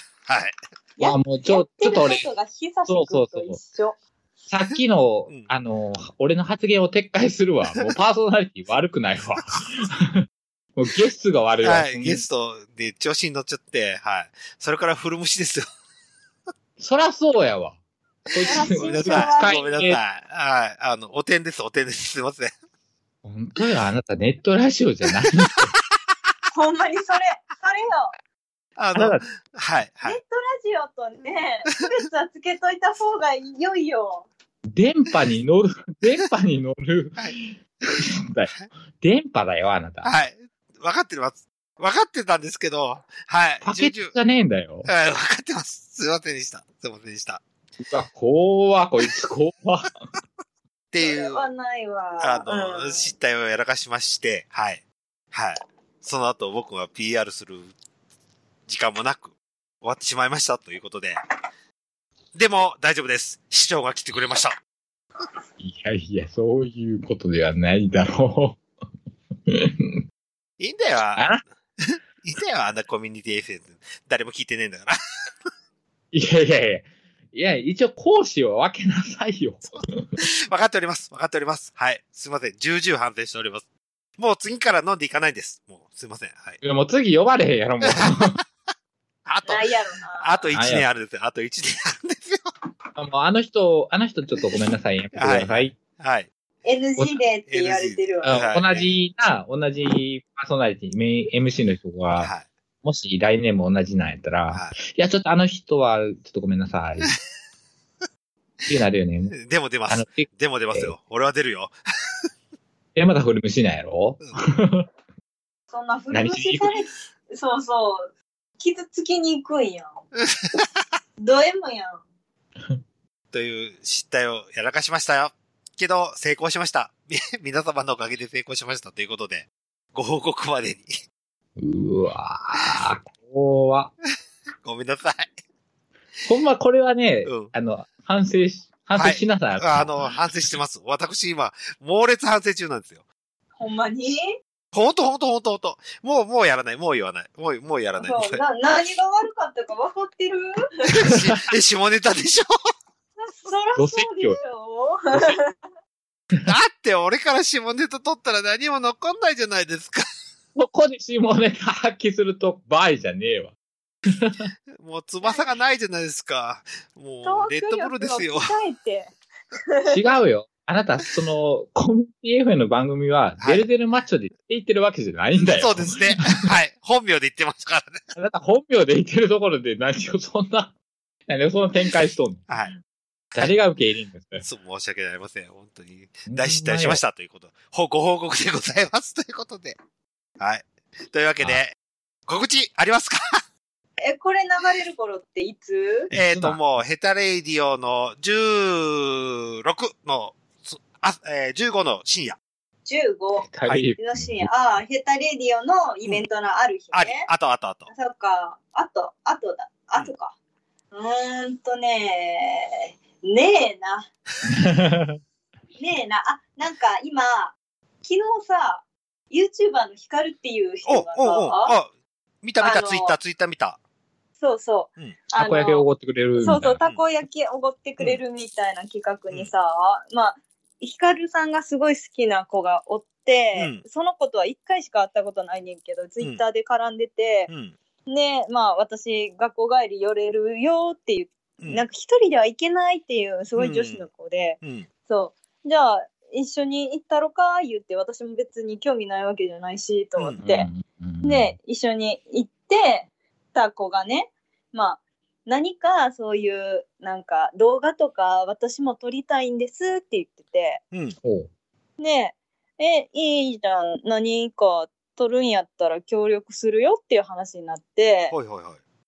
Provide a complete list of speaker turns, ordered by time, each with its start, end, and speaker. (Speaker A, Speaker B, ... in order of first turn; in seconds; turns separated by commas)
Speaker A: 0.3-0.5, Speaker B: 1.0-4.0, Speaker C: 1.0-2.3, Speaker C: 2.9-3.6, Speaker C: 4.5-10.2, Speaker C: 10.8-12.2, Speaker A: 11.6-15.7, Speaker C: 16.8-17.8, Speaker C: 18.3-20.0, Speaker A: 18.4-22.5, Speaker B: 18.4-19.9, Speaker C: 23.2-25.7, Speaker B: 26.5-28.1, Speaker A: 28.8-30.2, Speaker C: 28.9-29.2, Speaker B: 30.0-34.3, Speaker C: 34.6-40.1, Speaker A: 40.0-44.1, Speaker C: 43.6-44.9, Speaker A: 44.8-47.4, Speaker C: 47.8-49.9, Speaker A: 50.9-51.5, Speaker B: 51.0-53.1, Speaker A: 52.2-54.8, Speaker A: 55.3-57.7, Speaker A: 58.7-61.2, Speaker A: 62.3-64.5, Speaker C: 65.6-68.6, Speaker C: 69.5-70.0, Speaker A: 70.6-75.0, Speaker C: 71.2-71.4, Speaker C: 76.1-80.1, Speaker A: 80.2-83.7, Speaker A: 84.2-86.6, Speaker C: 86.6-88.4, Speaker A: 89.2-89.6, Speaker B: 89.5-90.3, Speaker A: 90.2-92.5, Speaker C: 90.5-90.9, Speaker C: 93.0-95.7, Speaker A: 95.2-96.3, Speaker B: 96.6-98.4, Speaker A: 97.5-98.9, Speaker C: 98.2-102.3, Speaker A: 102.2-102.5, Speaker C: 102.8-107.1, Speaker A: 104.5-104.8, Speaker C: 108.7-109.4, Speaker A: 109.3-111.7, Speaker C: 109.9-110.9, Speaker C: 113.0-114.9, Speaker B: 115.7-119.9, Speaker C: 116.1-116.8, Speaker B: 121.2-122.0, Speaker A: 123.3-130.9, Speaker C: 131.6-133.9, Speaker A: 134.6-135.3, Speaker C: 136.3-140.0, Speaker A: 137.2-137.5, Speaker A: 139.0-143.0, Speaker B: 143.6-144.3, Speaker A: 144.7-148.4, Speaker B: 148.0-150.9, Speaker A: 150.9-152.5, Speaker B: 153.2-155.5, Speaker C: 153.8-154.4, Speaker A: 156.4-160.0, Speaker C: 160.5-163.5, Speaker C: 164.1-164.5, Speaker A: 164.8-168.5, Speaker B: 167.2-169.1, Speaker B: 169.7-170.0, Speaker C: 169.9-176.4, Speaker A: 175.5-178.0, Speaker C: 178.1-180.7, Speaker C: 181.3-182.5, Speaker A: 182.5-182.7, Speaker C: 183.3-184.4, Speaker A: 184.4-189.7, Speaker C: 186.3-187.0, Speaker A: 190.4-191.7, Speaker A: 192.3-193.2, Speaker B: 194.0-196.1, Speaker C: 196.1-196.6, Speaker A: 196.1-202.4, Speaker B: 202.8-207.2, Speaker C: 203.4-204.5, Speaker A: 206.9-207.9, Speaker B: 207.9-210.3, Speaker B: 210.9-214.1, Speaker C: 214.5-215.2, Speaker B: 215.8-221.7, Speaker A: 220.9-221.9, Speaker A: 222.4-223.8, Speaker B: 222.6-223.2, Speaker B: 224.4-237.5, Speaker C: 225.3-226.8, Speaker A: 233.5-233.8, Speaker A: 237.5-237.7, Speaker B: 238.1-250.7, Speaker A: 241.6-241.8, Speaker A: 243.6-244.1, Speaker A: 244.6-244.9, Speaker C: 250.4-251.5, Speaker B: 251.2-260.8, Speaker C: 261.2-261.5, Speaker B: 262.0-268.3, Speaker A: 268.3-268.8